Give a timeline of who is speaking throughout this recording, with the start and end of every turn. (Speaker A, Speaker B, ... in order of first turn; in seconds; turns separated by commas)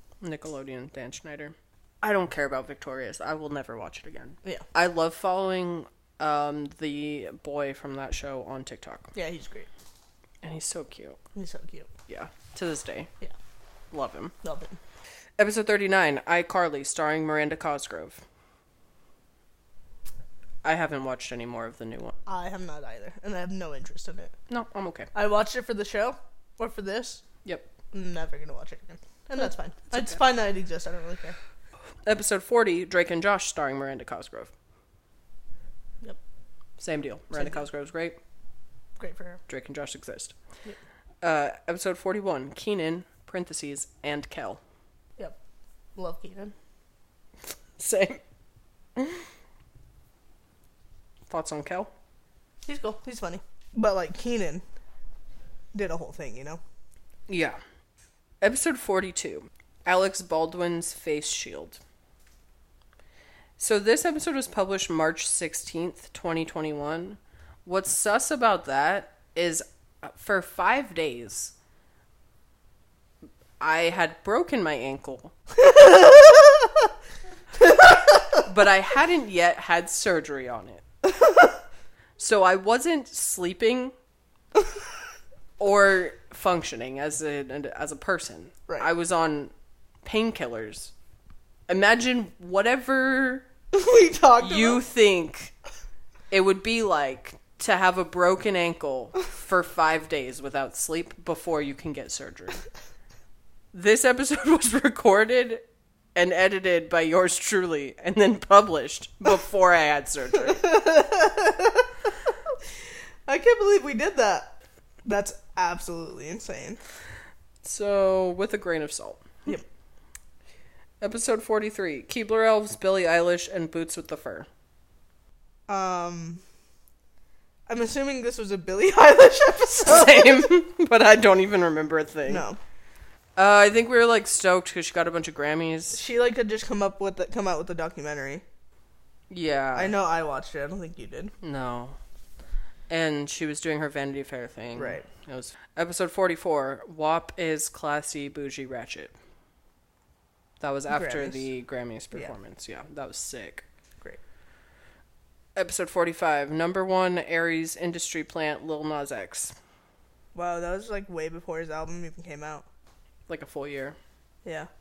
Speaker A: 0.2-9.1, Speaker B: 9.1-9.7, Speaker A: 10.4-11.2, Speaker B: 11.3-11.9, Speaker A: 12.1-13.1, Speaker A: 13.9-14.3, Speaker B: 14.4-14.8, Speaker A: 15.4-18.2, Speaker A: 20.6-22.2, Speaker B: 22.2-24.3, Speaker A: 24.5-25.1, Speaker B: 25.1-27.2, Speaker B: 27.9-31.4, Speaker A: 32.0-34.5, Speaker A: 36.8-38.2, Speaker B: 37.3-37.6, Speaker B: 39.0-39.4, Speaker A: 39.5-40.3, Speaker A: 41.2-44.6, Speaker B: 46.0-46.5, Speaker A: 47.8-48.2, Speaker A: 49.0-49.2, Speaker A: 51.3-51.9, Speaker B: 52.6-54.6, Speaker B: 55.7-56.6, Speaker A: 57.3-57.6, Speaker A: 58.4-61.8, Speaker A: 63.6-71.5, Speaker A: 73.6-75.3, Speaker B: 75.7-76.7, Speaker A: 78.4-80.8, Speaker A: 82.2-83.9, Speaker A: 85.6-89.5, Speaker A: 90.0-90.9, Speaker A: 91.7-93.5, Speaker B: 93.7-94.8, Speaker A: 94.4-95.5, Speaker A: 96.3-102.6, Speaker A: 103.7-105.6, Speaker A: 106.1-110.7, Speaker B: 110.5-111.9, Speaker B: 113.3-116.8, Speaker A: 117.6-119.3, Speaker A: 121.0-124.5, Speaker B: 125.7-126.4, Speaker B: 127.7-130.5, Speaker A: 129.8-132.4, Speaker B: 132.3-132.6, Speaker A: 133.3-136.0, Speaker B: 135.9-138.4, Speaker A: 139.3-139.9, Speaker B: 139.7-141.3, Speaker A: 141.4-141.9, Speaker A: 142.9-149.1, Speaker B: 144.8-145.1, Speaker A: 150.6-153.6, Speaker B: 150.9-151.4, Speaker A: 155.5-159.5, Speaker B: 160.3-162.7, Speaker A: 163.3-164.0